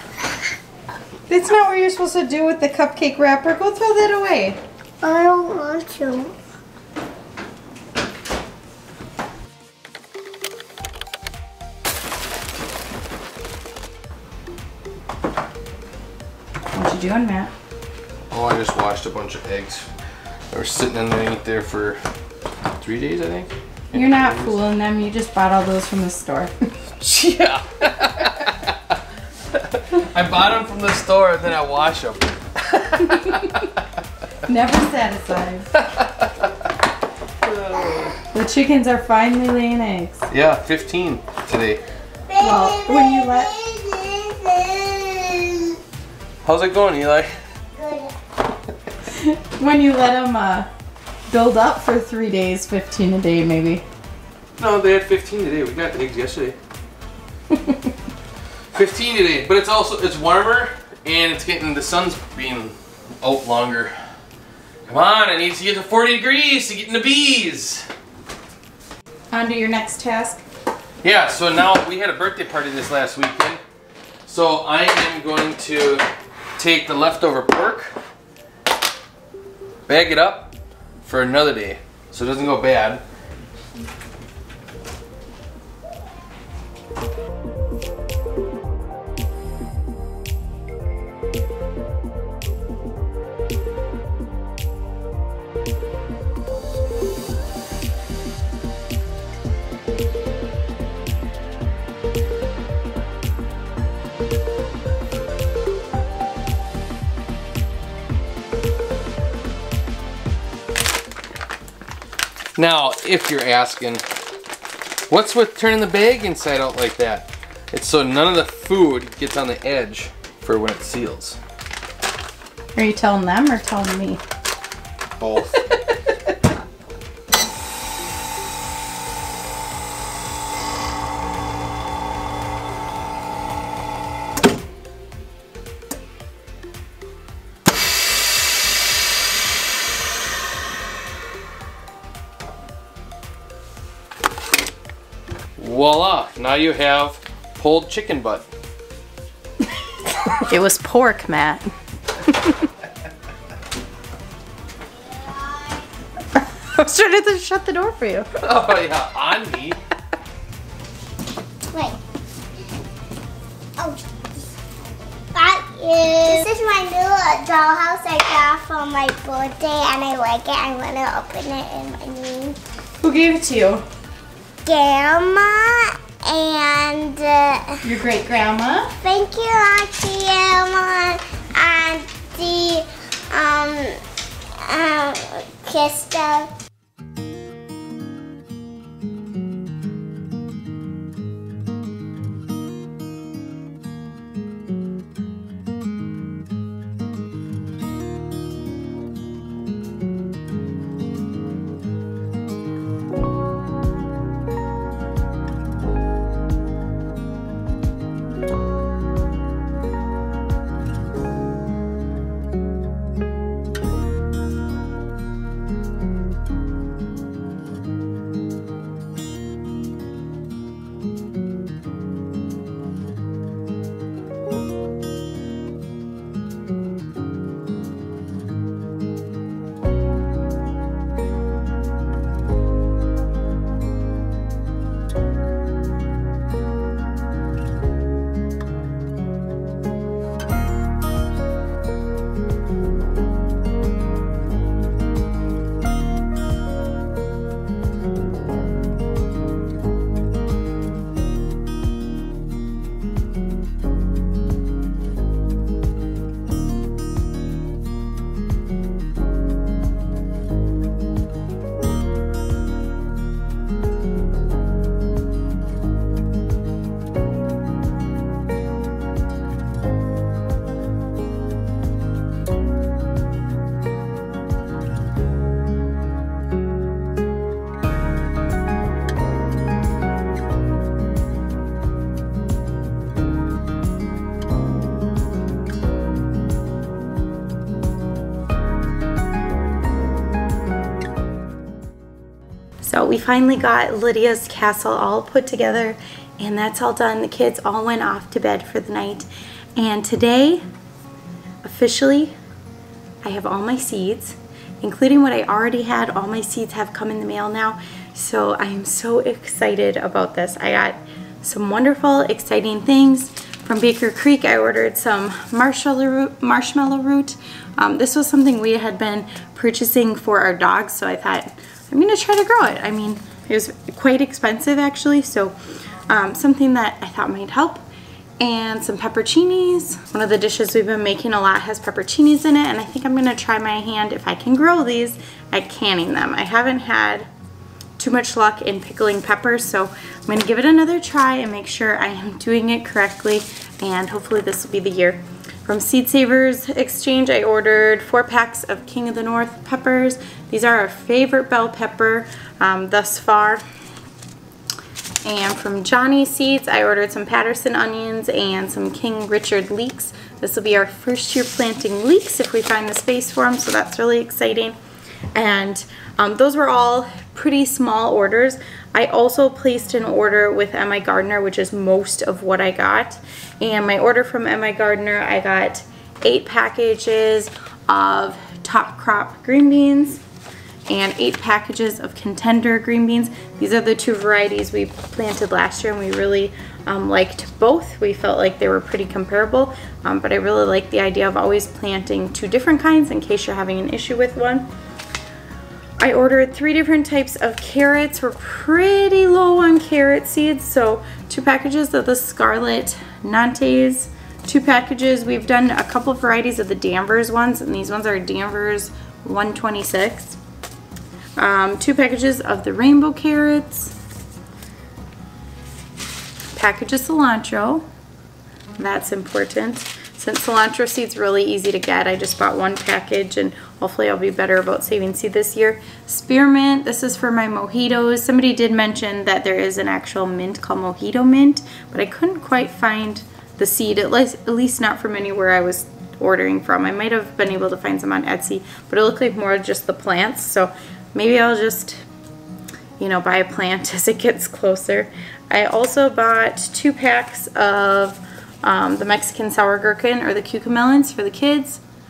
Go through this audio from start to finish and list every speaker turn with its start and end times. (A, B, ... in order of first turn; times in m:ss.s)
0:01.3-0:04.6 A
0:05.0-0:06.3 B
0:16.7-0:17.5 A
0:18.3-0:19.9 C
0:20.5-0:22.0 C
0:22.8-0:24.6 C
0:23.9-0:26.5 A
0:27.0-0:28.7 C
0:29.5-0:33.8 C
0:33.1-0:33.6 A
0:34.4-0:35.7 A
0:35.8-0:36.7 C
0:37.4-0:38.2 C
0:37.7-0:38.1 B
0:38.3-0:40.3 A
0:40.3-0:41.8 C
0:42.3-0:45.8 B
0:42.4-0:43.5 A
0:46.4-0:47.3 C
0:47.8-0:48.1 B
0:49.1-0:50.7 A
0:51.3-0:53.8 A
0:54.6-0:56.6 C
0:58.7-1:03.9 C
1:04.9-1:07.8 C
1:09.3-1:10.4 A
1:11.0-1:13.6 C
1:14.2-1:16.0 C
1:16.6-1:17.9 C
1:19.9-1:20.5 C
1:21.0-1:23.0 C
1:52.6-1:54.0 C
1:55.1-2:01.4 C
2:02.7-2:04.2 A
2:05.2-2:05.6 C
2:25.6-2:28.5 C
2:30.2-2:31.7 A
2:32.3-2:32.5 A
2:36.6-2:38.3 A
2:38.4-2:39.8 C
2:45.3-2:52.6 B
2:53.0-2:53.8 A
2:54.6-2:57.8 B
2:57.8-2:59.0 A
2:59.0-3:04.0 B
3:04.6-3:06.5 B
4:52.8-5:00.6 A
5:01.6-5:02.3 A
5:03.2-5:25.5 A
5:26.1-5:27.8 A
5:28.4-5:37.3 A
5:38.0-5:53.6 A
5:55.2-6:04.8 A
6:05.3-6:20.2 A
6:20.9-6:34.7 A
6:36.0-6:50.4 A
6:51.4-6:53.9 A
6:56.5-6:57.8 A
6:58.8-7:22.0 A
7:23.0-7:31.8 A